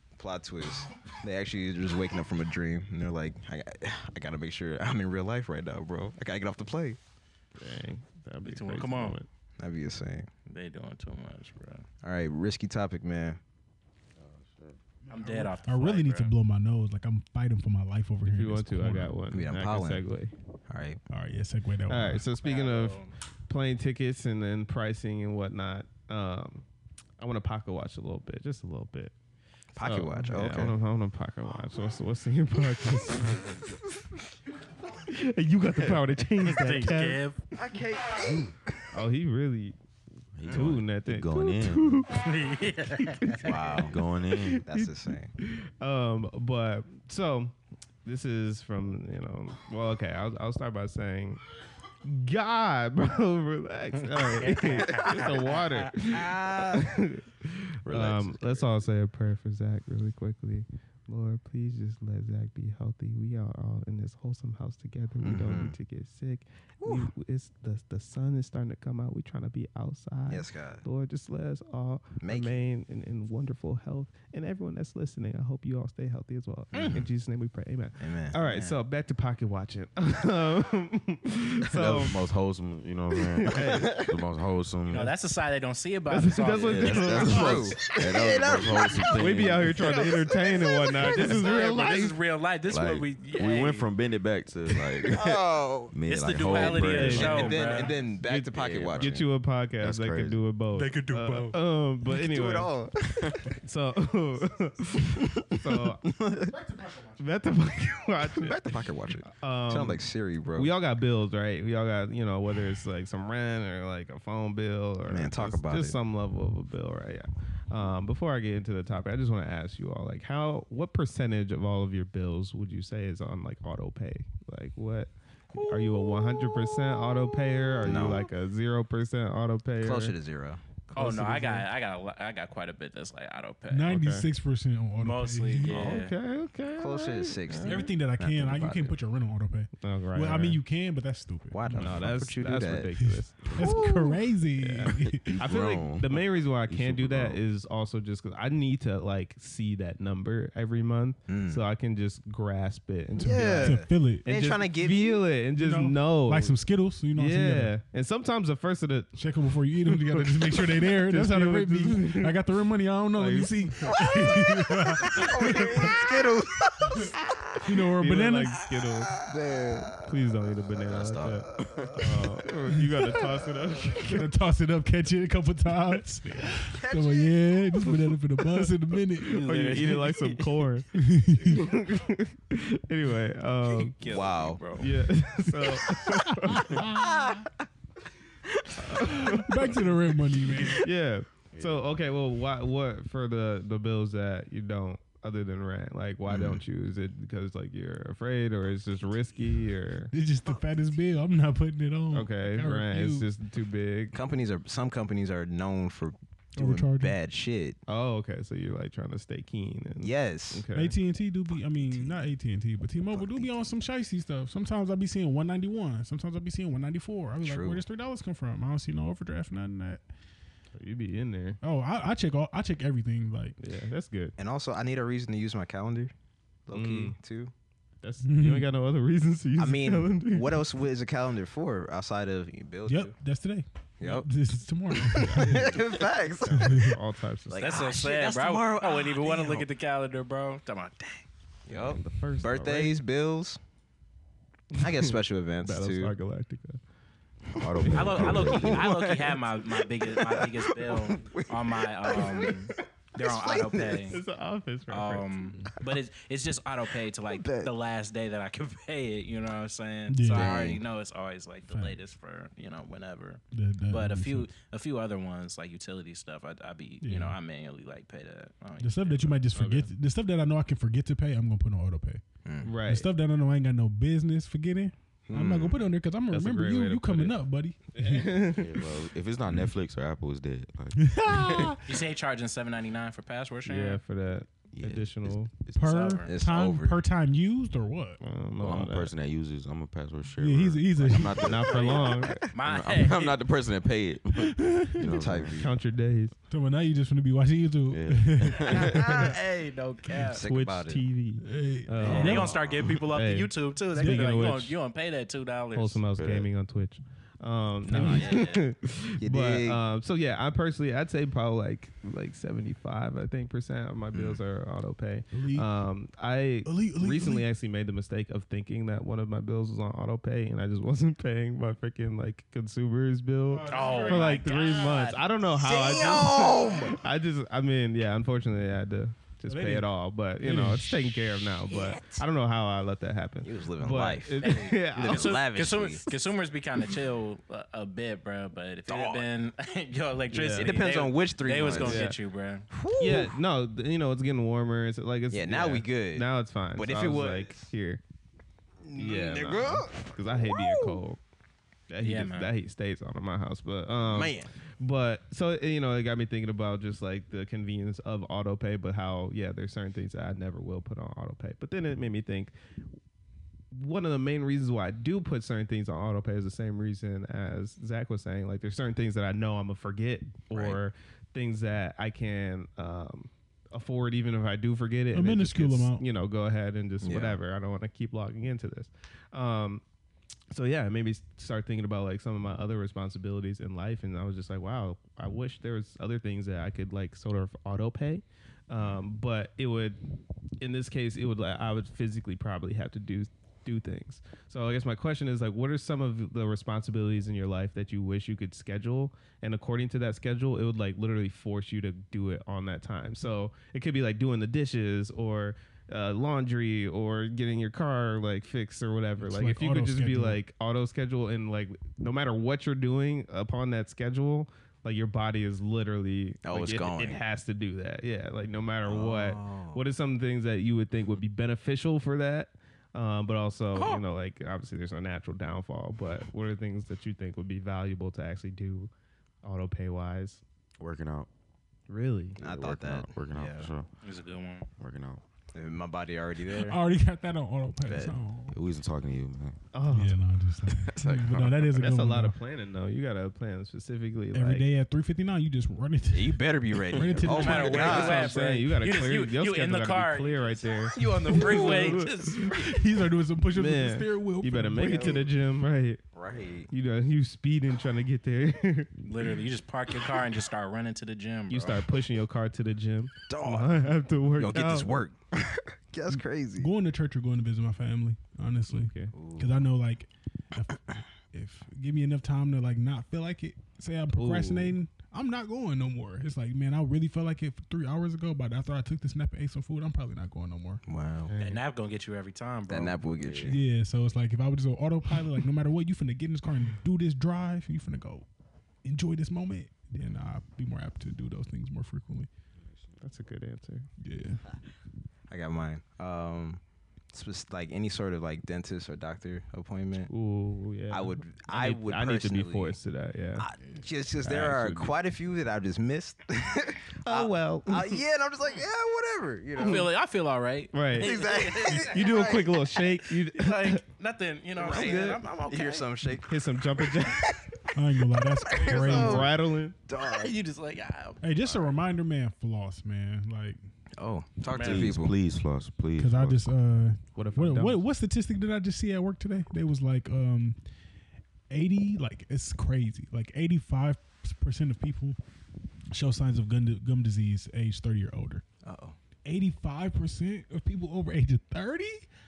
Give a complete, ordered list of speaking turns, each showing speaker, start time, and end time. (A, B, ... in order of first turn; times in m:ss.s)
0:00.2-0:07.0 A
0:07.6-0:09.3 B
0:08.4-0:09.2 C
0:09.6-0:10.3 A
0:10.4-0:11.8 C
0:12.0-0:13.4 A
0:14.2-0:14.8 D
0:15.1-0:19.2 E
0:15.1-0:16.3 C
0:18.2-0:20.3 B
0:19.3-0:20.0 A
0:20.7-0:21.0 A
0:21.1-0:22.2 E
0:21.9-0:26.6 B
0:22.4-0:23.1 C
0:27.2-0:29.1 B
0:29.8-0:30.8 A
0:29.8-0:33.6 B
0:35.1-0:37.2 B
0:36.4-0:37.4 C
0:37.5-0:38.5 A
0:38.9-0:39.8 B
0:40.4-0:42.0 D
0:40.4-0:42.1 B
0:42.1-0:43.8 C
0:43.4-0:44.0 A
0:43.8-0:44.6 D
0:44.3-0:51.4 B
0:44.7-0:45.3 A
0:52.0-1:22.2 B
0:54.1-0:55.9 C
0:56.2-0:56.9 A
0:57.8-0:58.9 D
1:05.2-1:05.8 A
1:06.8-1:07.1 A
1:10.3-1:10.8 A
1:12.2-1:12.6 A
1:16.7-1:17.0 A
1:16.7-1:17.0 C
1:18.0-1:18.4 A
1:18.4-1:18.8 C
1:21.7-1:25.1 D
1:23.3-1:24.1 B
1:23.8-1:24.1 A
1:24.9-1:27.7 C
1:26.1-1:27.8 B
1:26.5-1:29.9 D
1:26.9-1:31.6 A
1:29.0-1:32.2 B
1:31.0-1:33.9 C
1:32.7-1:35.2 D
1:35.1-1:39.2 A
1:35.9-1:37.6 D
1:36.1-1:38.0 C
1:36.6-1:42.7 B
1:38.2-1:40.4 D
1:40.8-1:41.5 E
1:42.1-1:43.5 A
1:43.4-1:46.1 B
1:45.2-1:46.5 A
1:46.5-1:47.1 E
1:47.2-2:10.2 B
1:48.3-1:50.7 A
1:55.0-1:56.0 A
2:07.8-2:08.3 A
2:09.8-2:10.6 A
2:10.9-2:11.6 B
2:10.9-2:13.9 C
2:13.7-2:15.8 E
2:13.9-2:14.3 B
2:15.0-2:16.1 C
2:15.7-2:17.9 B
2:16.8-2:18.9 A
2:17.6-2:22.0 E
2:19.8-2:20.6 B
2:21.5-2:22.9 A
2:21.7-2:23.8 B
2:23.0-2:25.4 E
2:23.4-2:23.8 D
2:23.6-2:24.2 A
2:24.6-2:36.6 B
2:25.0-2:27.4 D
2:31.3-2:31.6 A
2:33.2-2:35.2 A
2:33.6-2:34.3 E
2:35.6-2:37.8 E
2:37.1-2:39.2 B
2:39.2-2:46.0 E
2:39.9-2:42.4 B
2:43.2-2:44.4 B
2:44.2-2:44.5 A
2:45.0-2:47.6 A
2:45.4-2:46.0 B
2:46.8-2:47.1 E
2:47.6-2:54.3 B
2:47.6-2:48.6 E
2:49.1-2:50.2 A
2:50.9-2:53.3 A
2:52.7-2:53.1 E
2:54.0-2:59.8 E
2:56.7-2:57.4 A
2:58.3-3:00.9 B
2:59.5-3:00.2 C
3:00.9-3:01.7 E
3:01.4-3:04.0 B
3:03.8-3:04.9 C
3:04.0-3:04.6 A
3:04.7-3:06.9 B
3:06.2-3:07.2 E
3:06.7-3:07.5 A
3:08.6-3:09.4 A
3:08.8-3:09.8 B
3:09.0-3:10.8 E
3:10.7-3:20.1 B
3:11.6-3:11.9 D
3:16.3-3:16.6 A
3:20.1-3:23.3 E
3:22.1-3:24.2 B
3:24.1-3:27.8 A
3:26.6-3:27.1 E
3:27.9-3:31.0 B
3:30.0-3:30.6 A
3:30.7-3:40.0 E
3:33.1-3:33.6 A
3:37.4-3:37.8 A
3:40.7-3:41.6 B
3:41.6-3:43.6 E
3:43.6-3:44.3 B
3:44.4-3:46.1 A
3:46.6-3:47.5 A
3:46.7-3:47.1 B
3:48.0-3:50.6 B
3:48.2-3:48.7 E
3:49.6-3:53.1 A
3:52.9-3:55.8 E
3:54.0-3:54.3 A
3:55.2-3:57.9 B
3:55.2-3:56.9 A
3:56.5-3:57.0 E
3:57.5-3:59.7 A
3:57.6-4:01.2 C
4:01.7-4:03.6 A
4:01.7-4:03.0 B
4:04.7-4:05.1 B
4:04.8-4:06.1 A
4:05.6-4:06.8 B
4:07.5-4:08.9 D
4:07.5-4:14.2 A
4:07.8-4:08.5 B
4:07.9-4:14.2 C
4:14.1-4:15.5 B
4:14.9-4:29.4 C
4:17.3-4:17.7 A
4:20.1-4:20.5 E
4:20.3-4:20.8 A
4:21.7-4:22.0 E
4:23.5-4:24.5 E
4:27.0-4:27.4 E
4:28.8-4:32.2 E
4:29.5-4:29.9 B
4:32.4-4:32.7 A
4:32.6-4:33.1 B
4:32.8-4:38.4 E
4:35.3-4:35.9 A
4:36.3-4:37.4 B
4:38.0-4:38.7 B
4:38.5-4:41.8 D
4:41.0-4:41.8 E
4:41.8-4:44.0 C
4:43.6-4:45.5 B
4:44.7-4:45.9 D
4:45.7-4:48.2 E
4:45.8-4:46.3 C
4:46.2-4:47.0 A
4:48.2-4:49.1 B
4:48.6-4:55.6 D
4:50.4-4:51.7 E
4:51.3-4:52.5 B
4:51.7-4:53.4 C
4:54.4-4:55.1 E
4:55.0-4:55.7 A
4:55.5-4:56.4 B
4:56.5-4:59.3 E
4:57.9-4:59.1 D
4:58.7-5:00.4 C
4:58.9-4:59.3 A
5:00.2-5:01.0 A
5:00.4-5:04.7 B
5:01.4-5:02.6 E
5:02.0-5:03.0 A
5:02.0-5:06.0 C
5:03.9-5:04.6 E
5:05.7-5:35.4 B
5:06.2-5:06.5 D
5:07.8-5:08.6 A
5:07.9-5:08.3 E
5:09.2-5:09.8 A
5:14.1-5:14.4 A
5:15.3-5:15.7 E
5:16.6-5:17.5 E
5:23.5-5:24.5 E
5:23.7-5:26.3 C
5:25.6-5:27.0 A
5:29.4-5:31.0 E
5:33.4-5:36.1 A
5:34.4-5:42.7 C
5:38.9-5:39.2 A
5:40.3-5:40.9 B
5:40.6-5:42.0 A
5:41.6-5:42.2 B
5:42.7-5:43.4 A
5:43.0-5:48.0 B
5:45.3-5:47.6 A
5:48.8-5:51.0 A
5:48.9-5:51.2 B
5:51.9-6:02.5 B
5:52.0-5:52.5 C
5:54.0-5:54.5 A
6:03.7-6:19.8 B
6:10.5-6:10.8 A
6:15.1-6:16.0 E
6:17.0-6:17.4 A
6:20.5-6:30.0 B
6:30.6-7:08.9 B
6:49.2-6:50.4 E
6:56.4-6:57.2 A
6:58.8-6:59.8 A
7:03.7-7:04.0 C
7:09.4-7:10.4 B
7:10.8-7:11.3 D
7:11.9-7:12.4 B
7:12.4-7:13.7 A
7:12.4-7:13.9 D
7:14.0-7:14.7 C
7:14.8-7:15.2 D
7:15.5-7:16.8 A
7:16.5-7:18.6 E
7:17.8-7:18.2 A
7:18.5-7:19.6 D
7:19.7-7:20.2 B
7:19.9-7:22.4 E
7:20.6-7:21.9 D
7:21.8-7:24.7 B
7:24.3-7:28.3 E
7:26.1-7:28.4 A
7:27.3-7:32.8 C
7:27.4-7:32.4 B
7:31.0-7:32.0 A
7:31.3-7:35.2 E
7:33.5-7:36.0 B
7:34.8-7:35.3 A
7:36.1-7:36.7 A
7:36.7-7:39.0 B
7:39.0-7:41.8 C
7:41.5-7:45.0 B
7:43.3-7:46.7 A
7:46.1-8:00.8 E
7:48.7-7:49.1 B
7:49.1-7:49.6 A
7:54.1-7:54.7 B
8:00.8-8:01.3 A
8:01.2-8:01.6 B
8:01.4-8:03.0 C
8:02.7-8:03.6 A
8:03.2-8:03.5 D
8:03.4-8:08.3 E
8:08.8-8:12.3 E
8:13.0-8:13.9 B
8:14.0-8:14.4 E
8:15.3-8:16.6 A
8:17.1-8:20.1 A
8:20.1-8:23.5 B
8:20.9-8:22.8 A
8:23.4-8:29.9 A
8:24.2-8:24.9 B
8:27.0-8:28.0 B
8:29.6-8:32.3 C
8:29.6-8:29.9 B
8:30.7-8:31.2 B
8:30.9-8:32.6 A
8:31.7-8:33.8 B
8:33.2-8:35.9 C
8:34.6-8:37.7 A
8:34.7-8:35.2 B
8:36.2-8:37.3 B
8:37.7-8:39.3 E
8:38.3-8:40.3 A
8:38.7-8:39.8 B
8:40.0-8:41.2 C
8:41.2-8:43.6 E
8:44.0-8:45.1 A
8:44.5-8:45.0 C
8:44.6-8:46.5 D
8:46.0-8:50.6 E
8:47.1-8:47.8 B
8:51.5-8:55.2 E
8:55.9-8:58.4 E
8:58.6-8:59.0 A
8:59.2-9:02.1 E